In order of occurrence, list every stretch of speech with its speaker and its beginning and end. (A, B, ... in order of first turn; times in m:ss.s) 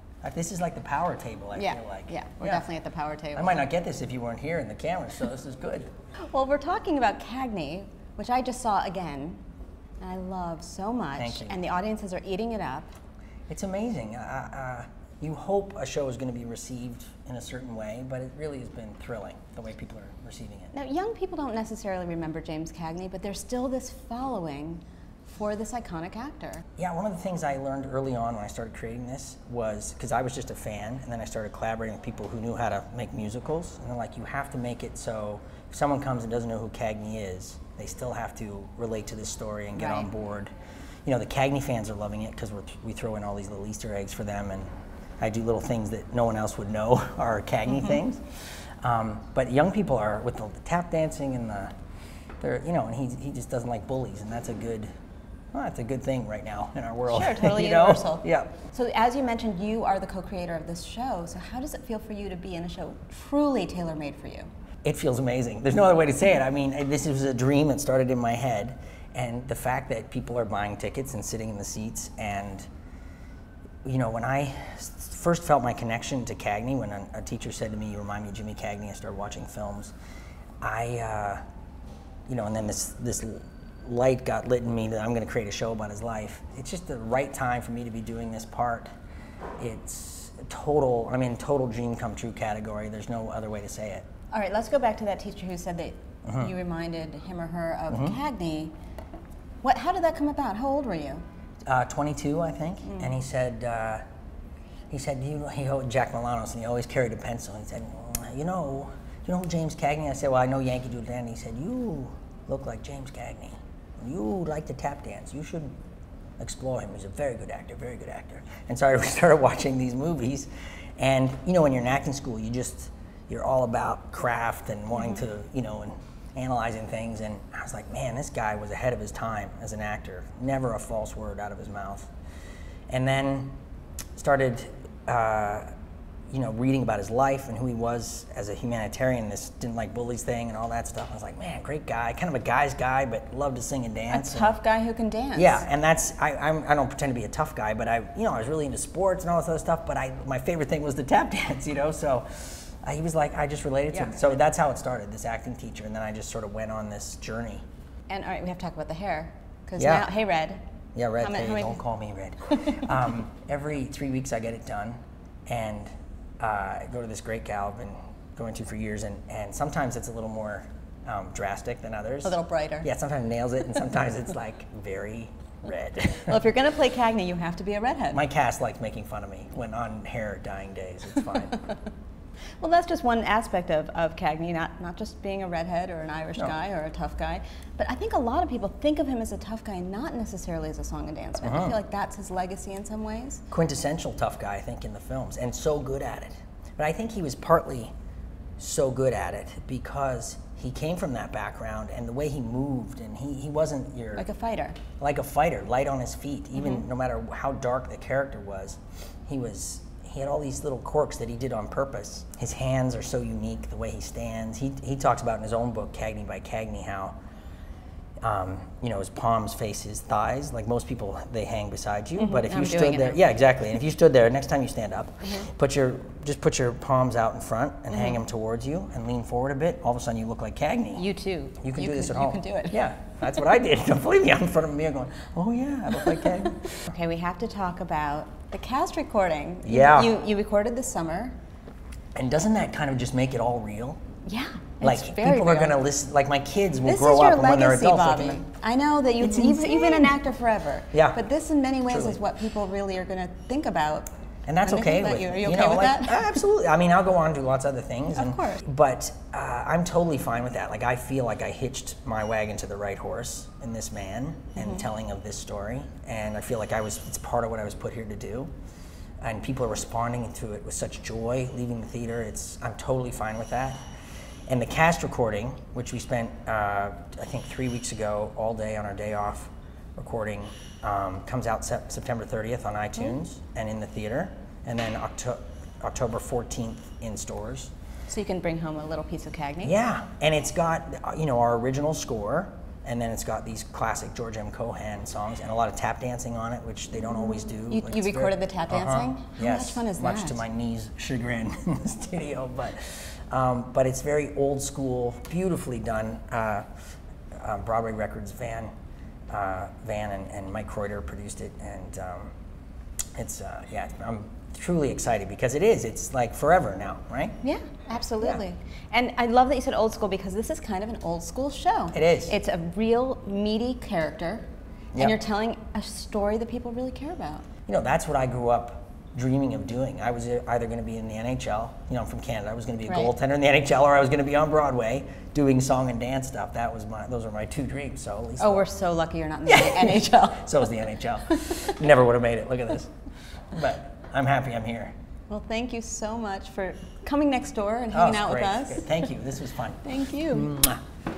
0:00.2-0:02.6 A
0:01.6-0:03.7 B
0:03.4-0:05.9 A
0:06.3-0:09.4 B
0:10.0-0:12.9 B
0:11.2-0:11.6 A
0:13.5-0:20.7 A
0:20.7-0:26.6 B
0:26.8-0:40.5 A
0:39.7-0:40.1 B
0:41.0-0:44.7 A
0:45.2-0:51.7 A
0:52.4-0:54.9 A
0:55.5-0:58.6 A
0:57.1-1:04.5 B
1:04.8-1:12.7 A
1:13.8-1:19.9 A
1:20.6-1:21.4 A
1:22.3-1:28.9 A
1:29.6-1:34.1 A
1:34.3-1:38.7 B
1:36.2-1:36.5 A
1:37.9-1:38.2 A
1:39.6-1:41.2 B
1:41.7-1:44.0 A
1:42.8-1:43.1 B
1:44.9-1:55.7 A
1:56.4-2:12.1 A
2:04.9-2:05.2 B
2:12.9-2:13.5 A
2:14.2-2:15.7 A
2:16.3-2:24.6 A
2:24.1-2:25.6 B
2:25.4-2:37.6 A
2:33.9-2:34.2 B
2:38.1-2:40.6 B
2:39.8-2:40.1 A
2:41.0-2:56.4 A
2:41.2-2:41.8 B
2:42.5-2:42.9 B
2:52.2-2:52.9 B
2:56.2-2:58.2 B
2:58.1-3:01.6 A
3:02.6-3:13.4 B
3:11.4-3:11.8 A
3:13.5-3:17.9 A
3:18.6-3:24.2 A
3:24.2-3:24.8 B
3:25.0-3:37.2 A
3:26.6-3:26.8 B
3:38.2-3:51.1 A
3:42.2-3:43.2 B
3:51.0-3:52.8 B
3:51.6-3:56.7 A
3:56.8-4:01.4 B
3:59.6-4:00.2 A
4:02.2-4:04.0 A
4:04.3-4:05.8 B
4:04.8-4:08.4 A
4:06.8-4:14.1 B
4:09.2-4:10.2 A
4:10.9-4:11.2 A
4:11.9-4:12.2 A
4:14.5-4:28.5 A
4:14.6-4:16.4 B
4:18.1-4:18.6 B
4:24.6-4:24.8 B
4:29.2-4:33.8 A
4:34.5-4:47.7 A
4:48.1-4:49.7 B
4:49.6-5:06.8 A
4:57.7-5:00.4 B
5:07.3-5:08.7 A
5:09.3-5:12.3 A
5:13.2-5:17.4 A
5:17.4-5:27.5 B
5:21.9-5:22.3 A
5:27.7-5:38.6 A
5:32.9-5:33.1 B
5:38.4-5:41.8 B
5:39.5-5:42.9 A
5:43.5-5:44.9 A
5:45.3-5:49.1 B
5:47.9-5:50.8 A
5:49.8-5:50.6 B